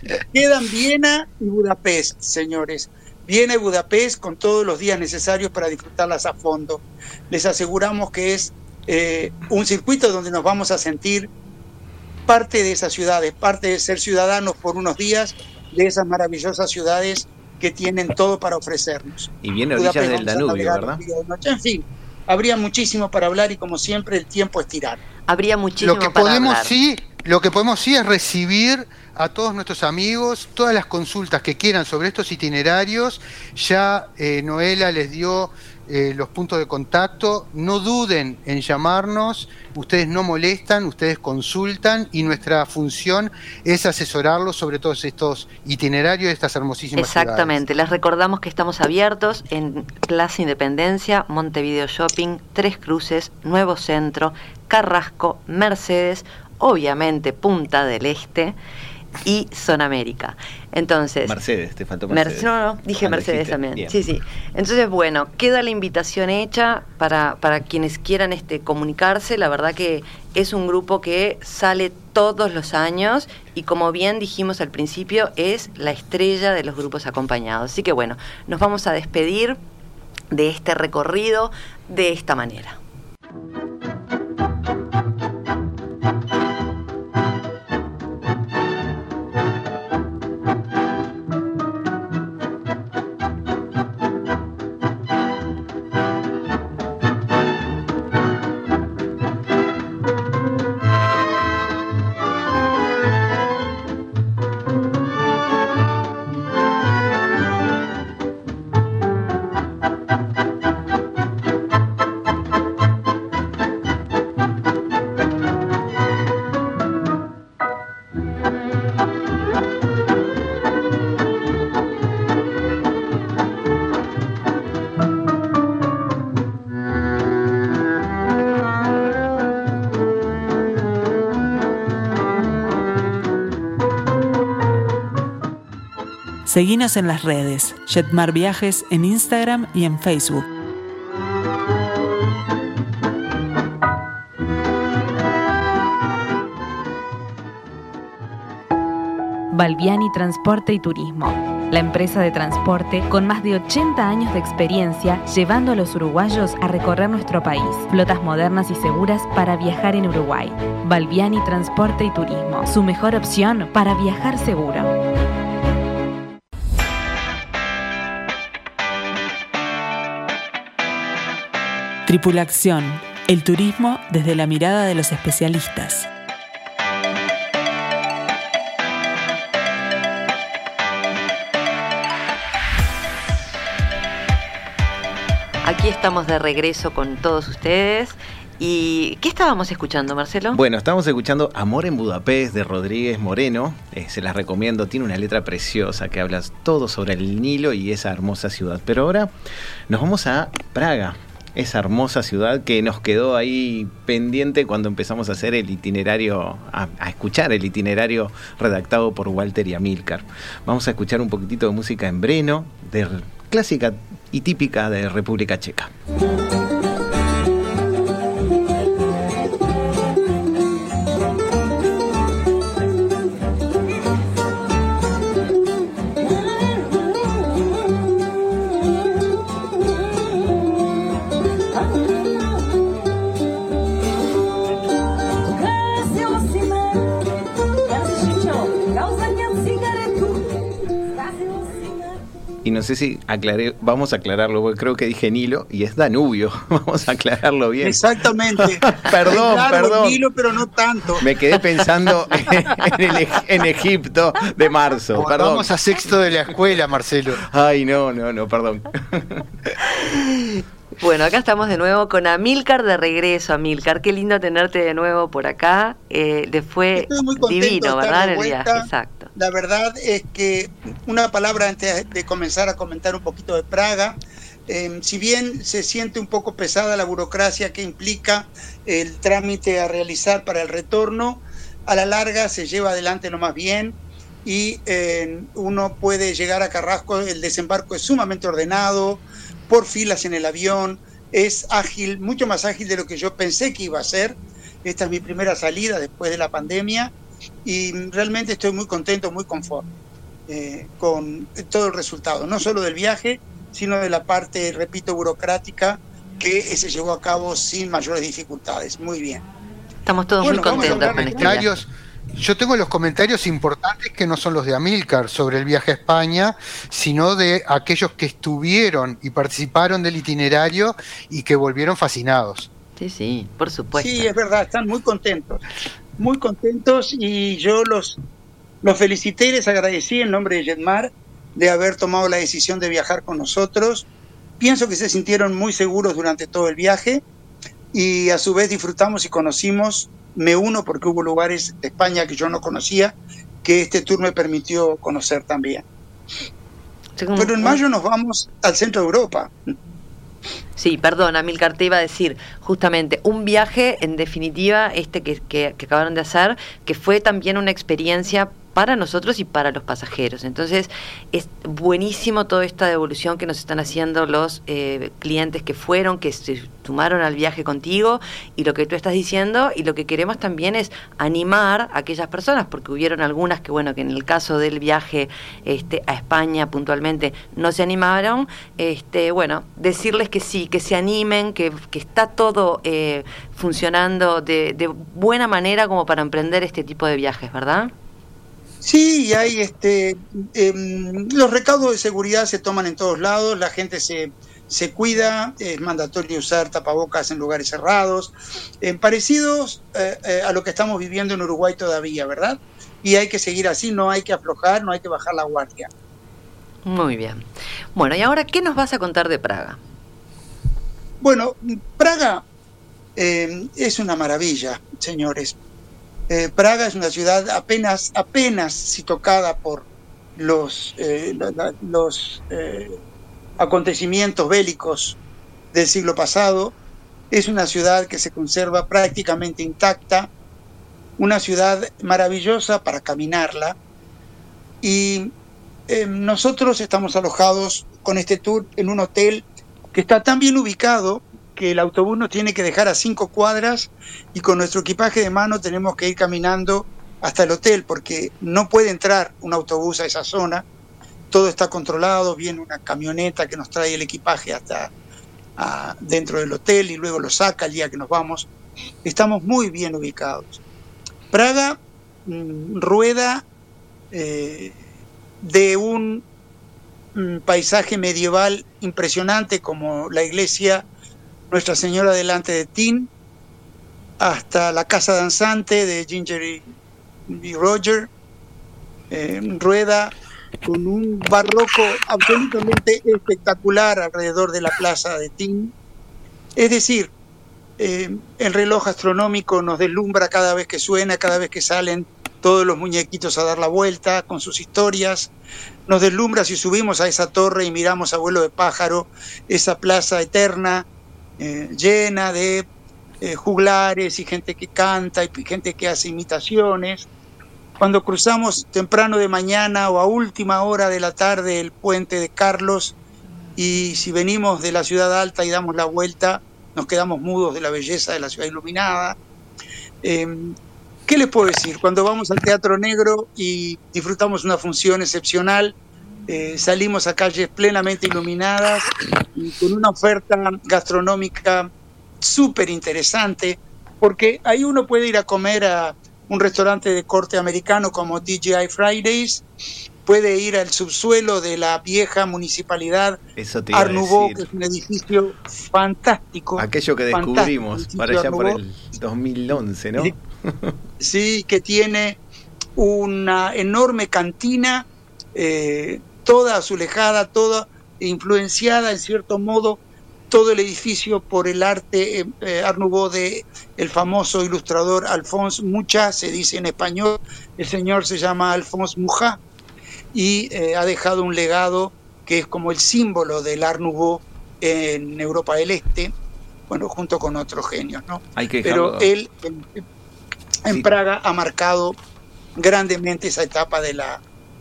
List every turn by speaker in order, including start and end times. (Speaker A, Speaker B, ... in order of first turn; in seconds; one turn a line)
Speaker A: 0.3-11.3
Speaker A: 12.3-25.0
Speaker B: 19.4-21.0
Speaker C: 25.3-26.7
Speaker D: 25.8-47.6
Speaker C: 47.0-58.6
Speaker C: 59.2-61.3
Speaker B: 61.2-63.9
Speaker C: 62.1-79.6
Speaker C: 80.3-82.8
Speaker E: 136.4-140.4
Speaker F: 149.5-164.9
Speaker E: 172.1-176.1
Speaker C: 185.6-190.6
Speaker B: 190.5-199.3
Speaker B: 199.9-215.9
Speaker B: 242.6-250.2
Speaker A: 247.8-251.2
Speaker B: 251.2-255.7
Speaker D: 255.2-257.4
Speaker B: 257.4-260.0
Speaker C: 260.0-269.3
Speaker A: 266.9-297.1
Speaker A: 297.6-299.9
Speaker A: 300.5-309.4
Speaker C: 310.1-311.7
Speaker A: 310.4-311.6
Speaker D: 310.5-322.7
Speaker C: 323.0-324.3
Speaker A: 323.9-325.6
Speaker A: 326.2-328.2
Speaker A: 328.8-334.1
Speaker A: 334.6-337.2
Speaker A: 337.9-345.8
Speaker C: 347.2-347.8
Speaker A: 347.4-349.7
Speaker C: 350.8-387.9
Speaker A: 388.8-405.9
Speaker C: 406.9-409.8
Speaker A: 411.2-412.4
Speaker A: 413.1-415.6
Speaker A: 416.3-423.0
Speaker A: 423.6-425.2
Speaker A: 425.7-426.7
Speaker A: 427.3-430.3
Speaker A: 431.2-433.8
Speaker A: 434.8-435.3
Speaker A: 435.9-450.6
Speaker A: 451.3-454.9
Speaker A: 455.6-458.5
Speaker A: 459.0-460.6
Speaker A: 461.3-463.4
Speaker A: 464.1-464.7
Speaker A: 465.4-466.2
Speaker A: 467.1-470.9
Speaker A: 471.5-473.1
Speaker A: 474.2-476.7
Speaker A: 477.3-478.1
Speaker A: 479.1-480.1
Speaker A: 480.6-485.7
Speaker A: 486.6-487.1
Speaker A: 487.8-495.3
Speaker A: 495.9-500.9
Speaker A: 501.4-502.7
Speaker A: 503.2-507.1
Speaker A: 507.8-512.9
Speaker A: 513.6-519.2
Speaker A: 520.0-520.5
Speaker A: 521.1-525.7
Speaker A: 526.3-531.7
Speaker A: 532.2-539.4
Speaker A: 540.0-543.2
Speaker B: 543.4-544.4
Speaker A: 543.7-548.6
Speaker B: 546.5-550.7
Speaker A: 551.0-552.2
Speaker A: 552.8-559.8
Speaker A: 560.3-569.4
Speaker A: 570.1-576.1
Speaker A: 576.7-579.8
Speaker B: 578.4-579.1
Speaker A: 580.6-582.0
Speaker A: 582.6-584.2